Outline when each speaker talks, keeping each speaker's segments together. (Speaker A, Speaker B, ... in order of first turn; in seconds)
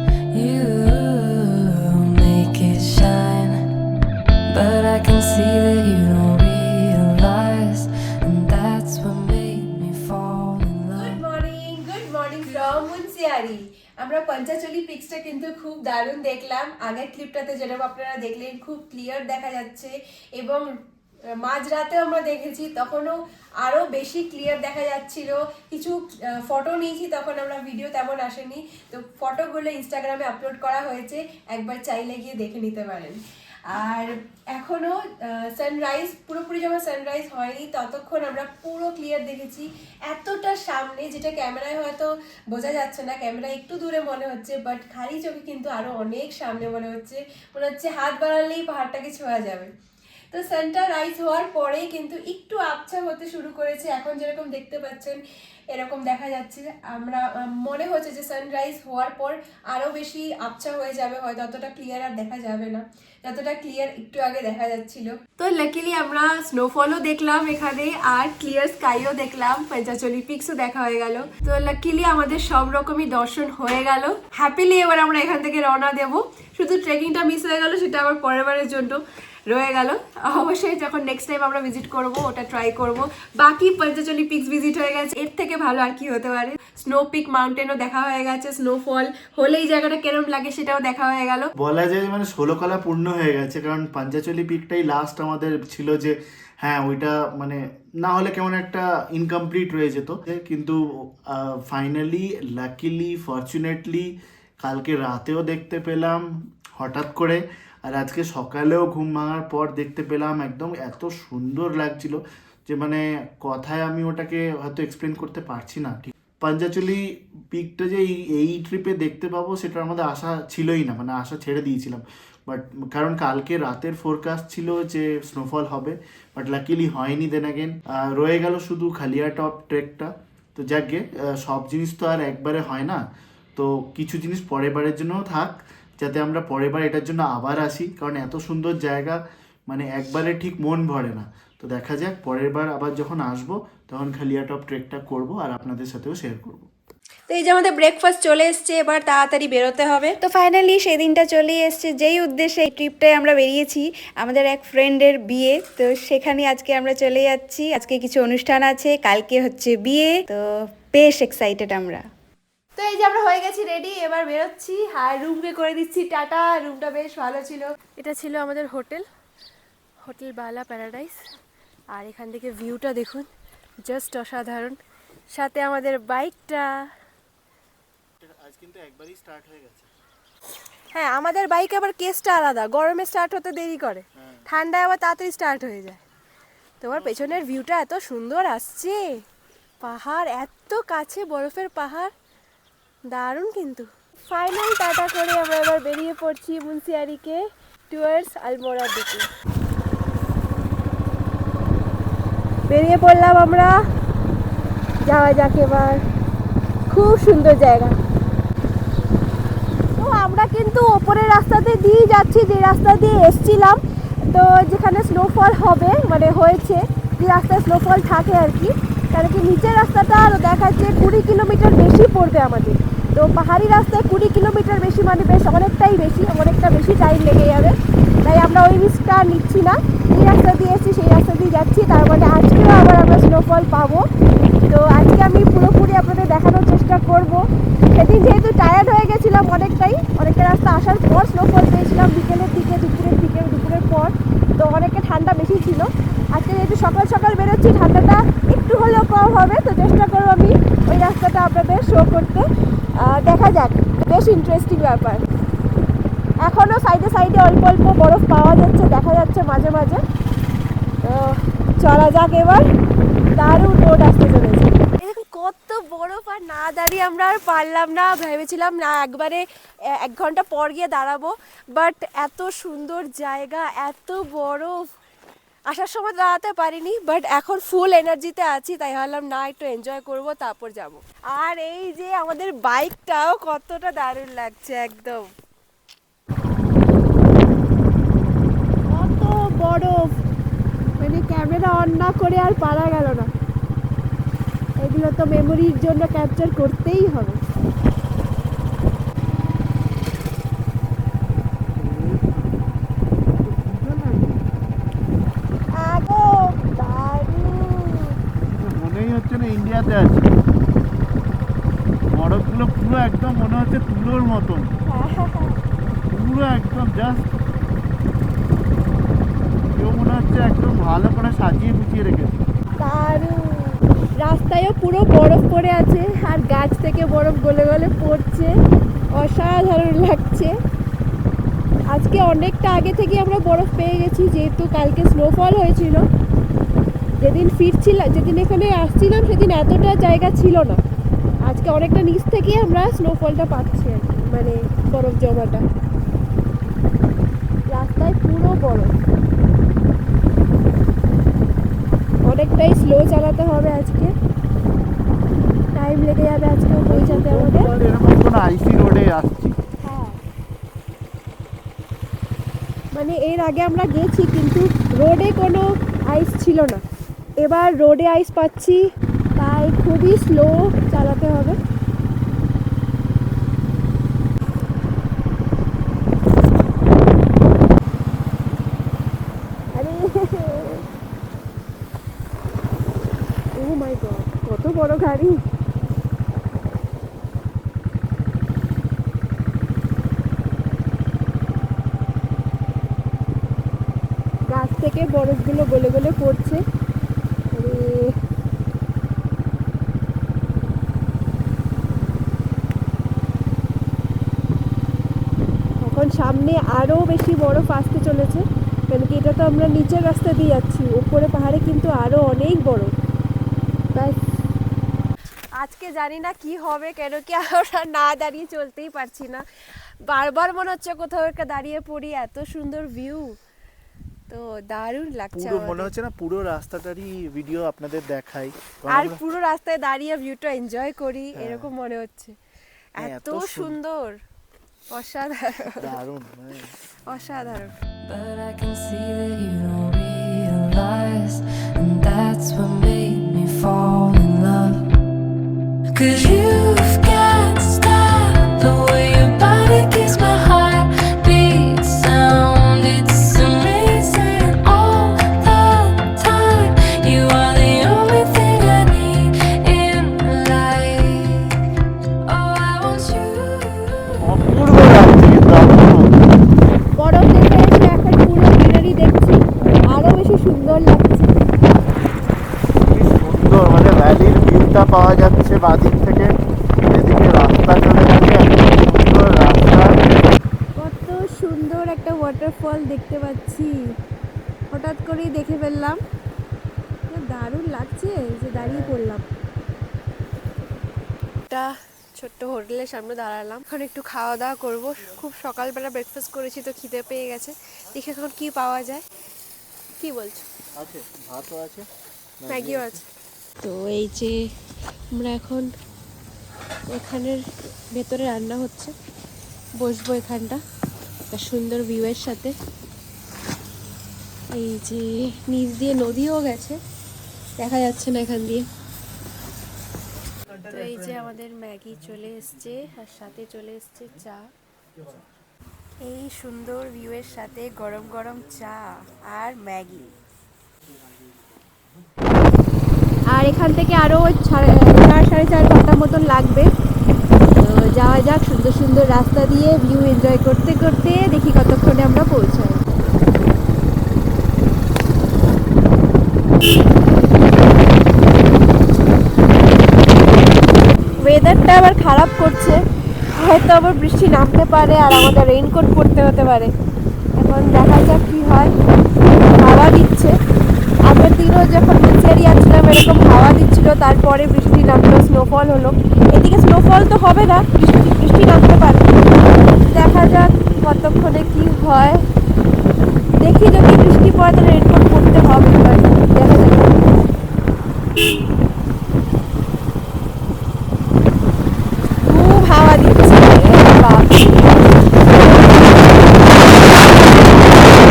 Speaker A: 0.3-3.6, 4.5-11.2, 438.1-444.9, 445.9-461.5, 462.2-464.4
Speaker B: 11.0-20.7, 21.4-49.7, 50.3-91.5, 147.3-150.2, 162.8-169.1, 170.0-171.2, 171.9-173.3, 173.8-176.9, 180.9-186.0, 186.8-189.0, 189.8-192.1, 193.1-199.3, 202.7-203.8, 205.0-206.0, 206.9-208.0, 209.9-234.1, 234.7-255.2, 256.4-260.0, 261.0-262.6, 263.4-274.8, 275.7-285.3, 288.9-290.2, 291.0-293.3, 294.8-297.4, 305.7-308.2, 314.9-315.6, 322.8-328.6, 329.1-330.6, 331.9-336.1, 337.2-340.8, 341.4-345.6, 347.7-348.9, 352.2-354.1, 355.7-357.7, 359.8-360.2, 362.9-366.8, 367.4-368.8, 369.4-371.6, 379.7-380.8, 383.6-385.4, 394.5-396.6, 397.5-398.1, 405.8-412.9, 413.9-414.2, 415.6-419.4, 420.0-423.4, 424.3-425.9, 428.9-432.4, 432.9-434.2, 434.9-435.9, 437.0-437.8, 467.0-471.3, 480.8-483.8, 484.7-486.0, 487.1-489.2, 491.5-499.0, 500.0-500.5, 502.5-503.0, 503.6-504.4, 505.1-505.7, 506.9-508.9, 509.8-510.6, 511.3-512.5, 514.5-516.8, 517.6-518.7, 520.6-524.4, 526.0-530.1, 533.3-536.7, 537.6-542.8, 551.2-552.8, 553.3-556.7, 557.4-558.7, 559.3-560.4, 561.0-569.0, 569.9-572.2, 573.4-577.0, 582.3-587.6
Speaker C: 91.6-133.0, 133.6-146.7, 178.2-179.9, 184.2-184.4, 186.9-187.4, 301.8-302.6, 303.4-304.5, 308.4-310.3, 312.1-314.7, 316.1-317.4, 319.7-322.4, 356.9-359.6, 425.3-429.2, 431.4-431.7, 433.0-433.8, 435.8-436.7, 464.2-466.2, 472.8-476.3, 476.9-480.3, 488.5-489.0, 500.8-501.9, 502.4-503.0
Speaker D: 150.2-160.4, 160.9-162.1